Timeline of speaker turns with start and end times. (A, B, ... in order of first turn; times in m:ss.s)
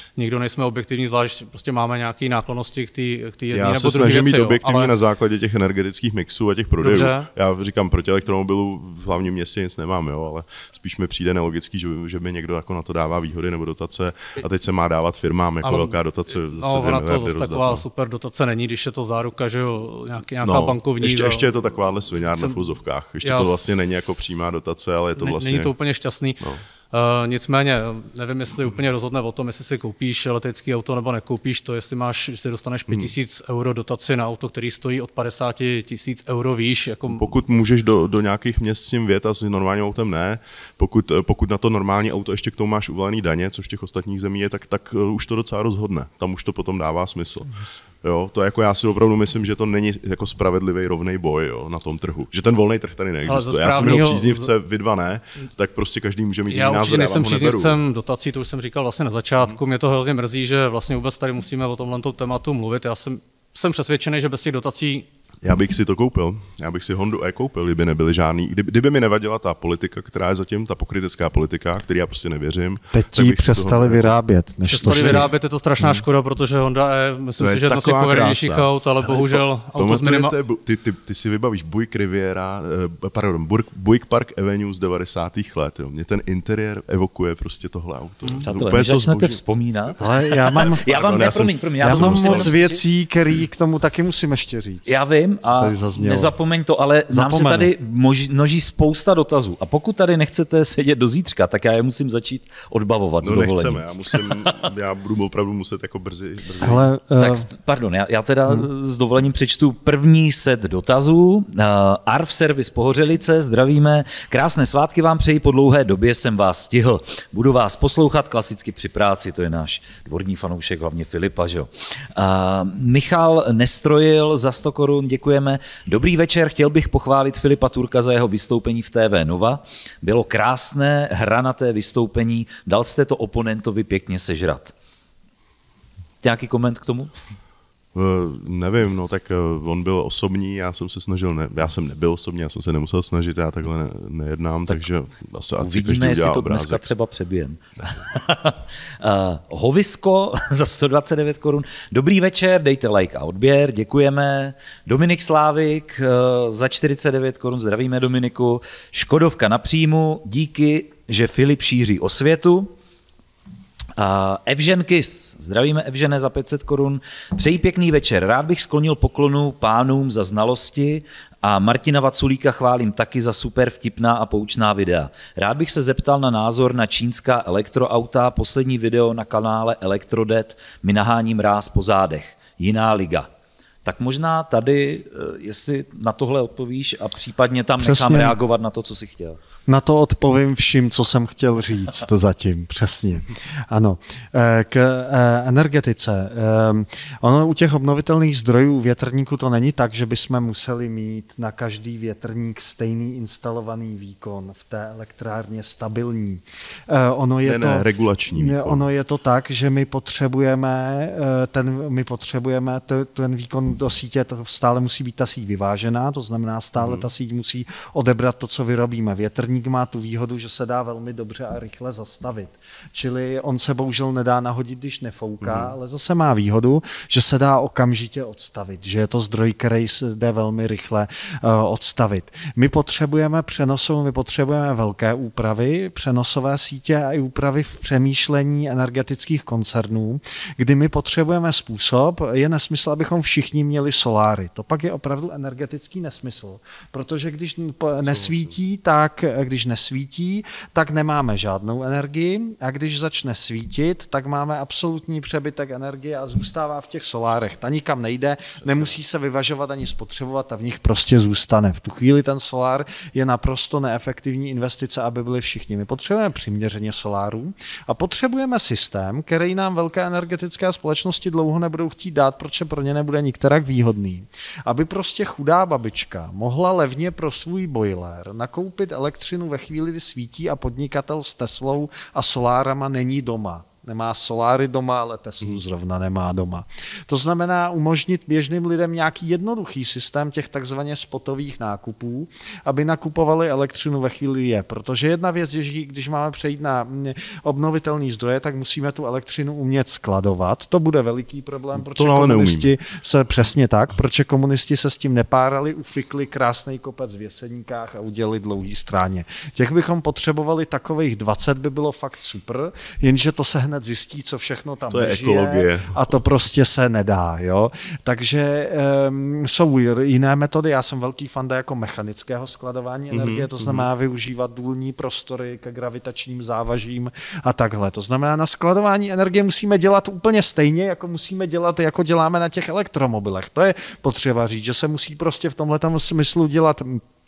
0:00.2-0:04.9 A
0:03.5-0:17.9 B
0:06.8-0:07.3 A
0:15.6-0:16.0 A
0:16.5-0:21.5 A
0:20.4-0:25.7 B
0:22.3-0:22.6 A
0:23.2-0:23.7 A
0:25.2-0:26.4 A
0:26.9-0:37.3 A
0:37.1-0:57.8 B
0:53.3-0:54.5 A
0:56.5-1:05.1 A
1:05.4-1:14.2 B
1:12.9-1:15.3 C
1:14.7-1:20.4 A
1:14.8-1:15.3 B
1:17.4-1:29.4 B
1:28.4-1:32.8 D
1:30.0-1:30.8 C
1:30.8-1:32.5 B
1:31.8-1:36.4 C
1:34.9-1:44.7 D
1:37.1-1:37.7 C
1:43.2-1:46.9 B
1:46.6-1:47.5 C
1:47.2-2:14.7 D
2:16.2-2:17.1 D
2:17.9-2:26.9 B
2:25.6-2:42.7 D
2:44.0-3:03.3 D
3:03.8-3:09.4 D
3:07.8-3:08.4 C
3:09.7-5:37.0 C
3:27.4-3:28.8 B
3:36.8-3:37.0 B
3:45.4-3:45.8 B
4:08.0-4:08.6 B
4:18.6-4:19.0 B
5:01.8-5:02.7 B
5:14.9-5:16.2 B
5:23.1-5:23.9 B